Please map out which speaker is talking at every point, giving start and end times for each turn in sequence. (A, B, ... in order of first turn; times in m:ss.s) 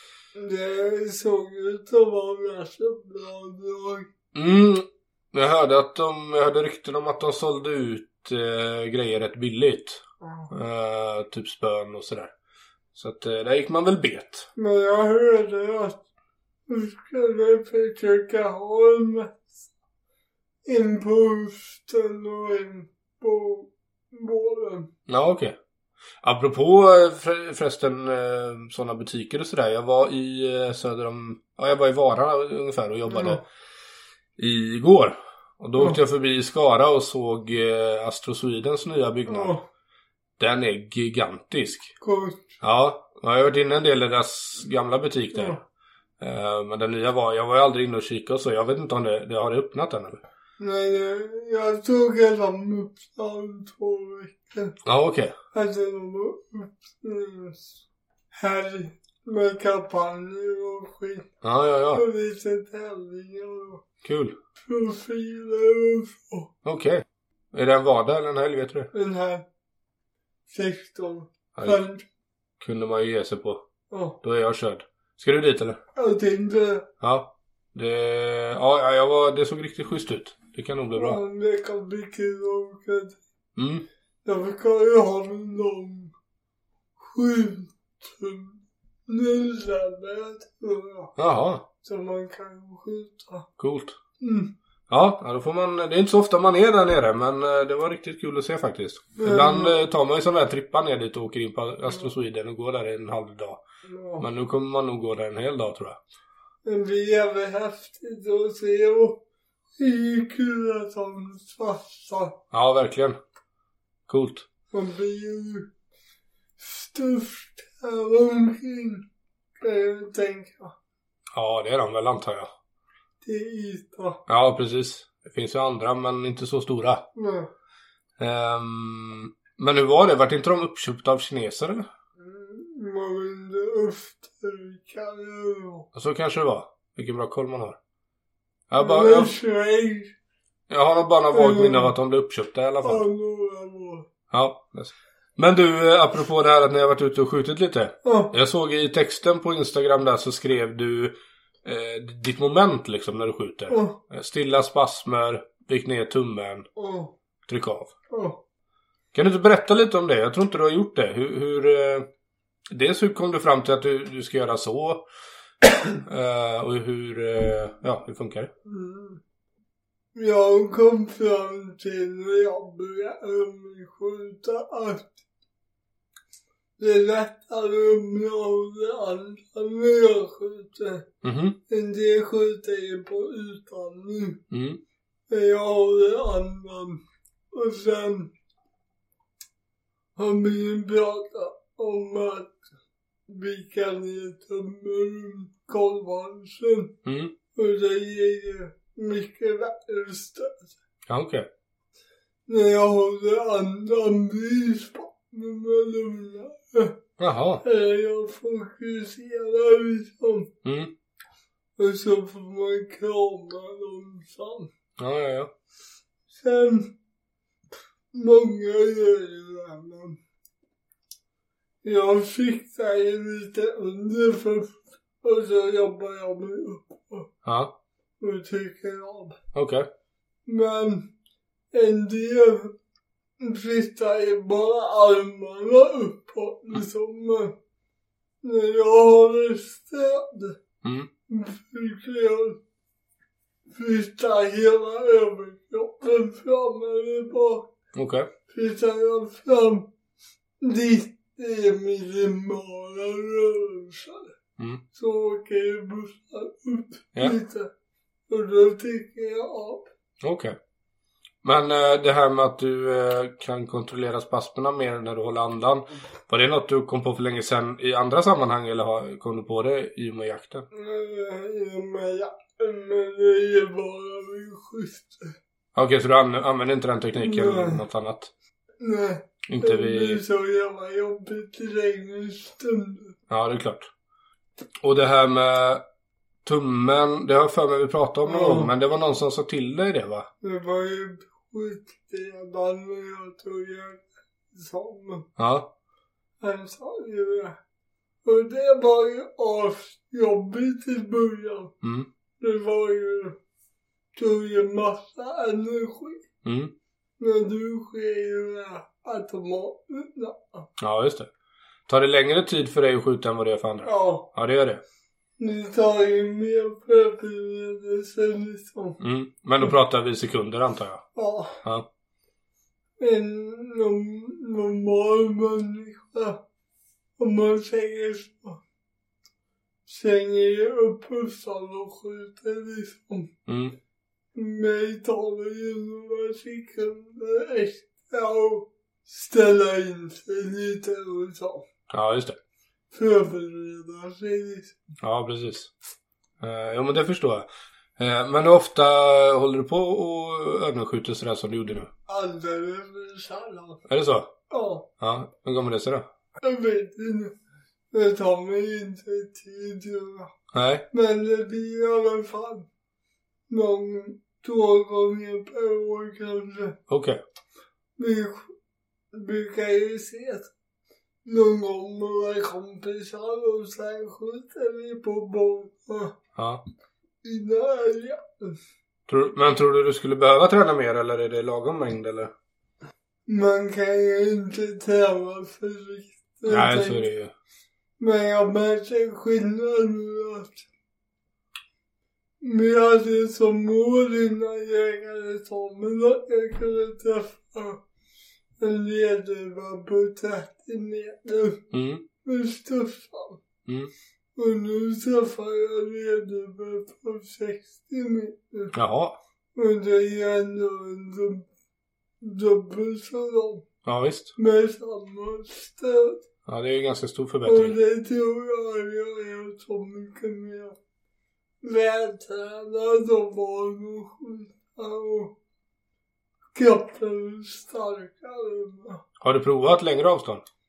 0:00.3-0:04.1 A
0:04.3-0:12.3 B
0:10.2-0:10.5 A
0:12.9-0:14.5 B
0:14.6-0:16.0 A
0:16.7-0:19.5 A
0:20.6-0:24.9 A
0:25.1-0:25.6 B
0:26.2-0:33.4 B
0:33.1-0:33.4 A
0:34.4-0:39.6 B
0:39.3-0:39.6 A
0:40.4-0:41.9 B
0:42.0-0:42.6 A
0:42.6-0:45.6 B
0:45.3-0:45.6 A
0:46.2-0:50.2 B
0:50.6-0:54.7 A
0:54.8-0:55.3 B
0:55.5-0:57.8 A
0:58.3-1:01.3 A
1:01.4-1:02.0 B
1:01.9-1:03.8 A
1:04.0-1:04.4 B
1:04.6-1:06.5 A
1:06.6-1:08.9 B
1:08.9-1:09.4 A
1:10.5-1:12.0 A
1:11.6-1:11.8 B
1:12.6-1:13.6 B
1:13.9-1:14.2 A
1:14.2-1:15.8 B
1:16.0-1:16.9 A
1:17.0-1:21.2 B
1:20.9-1:23.2 A
1:23.6-1:23.8 B
1:24.2-1:26.1 A
1:27.0-1:31.2 A
1:31.2-1:31.6 B
1:31.8-1:33.5 A
1:33.6-1:34.0 B
1:34.2-1:34.5 A
1:34.9-1:43.6 B
1:39.2-1:39.8 A
1:43.8-1:44.3 A
1:44.2-1:46.0 B
1:46.6-1:49.2 A
1:49.8-1:52.4 A
1:52.5-1:53.2 B
1:54.1-1:54.5 B
1:54.7-1:55.7 A
1:56.6-1:59.0 A
1:59.6-2:00.8 A
2:01.3-2:02.5 B
2:03.2-2:04.2 A
2:04.3-2:07.0 B
2:07.1-2:07.5 A
2:08.2-2:11.9 B
2:12.2-2:15.9 A
2:15.9-2:17.8 B
2:18.7-2:19.3 B
2:18.8-2:20.1 A
2:20.7-2:23.0 B
2:21.3-2:21.9 A
2:22.8-2:24.1 A
2:24.3-2:36.7 B
2:28.0-2:28.4 A
2:33.7-2:34.0 A
2:36.8-2:37.1 A
2:37.5-2:37.9 B
2:38.1-2:38.4 A
2:39.1-2:42.1 B
2:42.7-2:45.0 B
2:46.0-2:48.5 B
2:48.6-2:49.2 A
2:50.1-2:55.2 A
2:56.8-3:01.1 A
3:01.2-3:01.6 B
3:01.7-3:04.4 A
3:04.5-3:04.8 B
3:05.3-3:08.3 A
3:10.2-3:12.6 A
3:13.3-3:17.0 A
3:17.0-3:17.3 B
3:17.5-3:20.7 A
3:21.1-3:21.5 B
3:22.5-3:27.0 A
3:27.2-3:27.6 B
3:27.6-3:30.5 A
3:30.6-3:30.9 B
3:31.8-3:34.7 A
3:35.0-3:35.5 B
3:36.3-3:36.9 A
3:38.1-3:40.2 A
3:41.8-3:47.3 A
3:47.4-3:47.7 B
3:48.2-3:49.4 A
3:49.5-3:49.9 B
3:50.4-3:51.1 A
3:51.7-3:52.7 A
3:53.4-3:57.6 A
3:58.4-4:00.6 A
4:00.8-4:01.1 B
4:01.3-4:02.6 A
4:03.7-4:07.7 A
4:07.9-4:08.3 B
4:08.5-4:09.9 A
4:10.6-4:14.3 A
4:14.6-4:14.8 B
4:14.9-4:17.7 A
4:18.3-4:19.9 A
4:20.2-4:20.5 B
4:21.4-4:30.6 B
4:30.7-4:35.4 A
4:35.7-4:38.3 B
4:37.2-4:37.8 A
4:38.8-4:43.2 A
4:39.5-4:40.2 B
4:43.3-4:43.9 B
4:44.8-4:45.8 B
4:46.4-4:50.3 B
4:48.2-4:48.7 A
4:50.4-4:55.3 A
4:55.4-4:55.7 B
4:56.4-4:57.6 A
4:58.2-5:01.7 A
5:01.8-5:02.1 B
5:02.4-5:03.4 A
5:04.1-5:06.2 A
5:06.4-5:06.7 B
5:07.2-5:10.7 A
5:10.8-5:11.3 B
5:11.9-5:14.8 B
5:13.8-5:14.3 A
5:15.4-5:19.0 A
5:19.0-5:21.0 B
5:21.2-5:21.6 A
5:23.0-5:26.4 A
5:27.2-5:28.6 A
5:29.8-5:33.3 A
5:33.5-5:33.8 B
5:34.3-5:41.6 A
5:41.9-5:42.4 B
5:42.9-5:44.8 A
5:45.0-5:45.7 B
5:46.4-5:51.9 B
5:52.1-5:53.8 A
5:53.9-5:54.3 B
5:54.5-5:54.9 A
5:55.0-5:56.0 B
5:56.4-5:57.3 A
5:57.9-6:00.3 A
6:00.5-6:00.8 B
6:00.9-6:02.7 A
6:03.5-6:06.8 A
6:06.9-6:07.2 B
6:08.0-6:08.5 A
6:09.1-6:10.5 A
6:11.2-6:16.2 A
6:16.4-6:16.6 B
6:17.2-6:18.6 A
6:19.1-6:22.3 B
6:23.3-6:27.1 A
6:26.5-6:27.3 B
6:28.0-6:30.7 A
6:32.4-6:37.8 A
6:38.6-6:41.7 A
6:41.7-6:42.0 B
6:42.2-6:43.4 A
6:43.6-6:43.9 B
6:44.4-6:48.7 A
6:48.7-6:49.2 B
6:49.5-6:51.5 A
6:52.2-6:53.6 A
6:53.8-6:54.4 B
6:54.4-6:56.2 A
6:56.4-6:57.8 B
6:57.4-7:00.8 A
7:01.6-7:05.4 A
7:06.5-7:09.0 A
7:09.2-7:10.4 B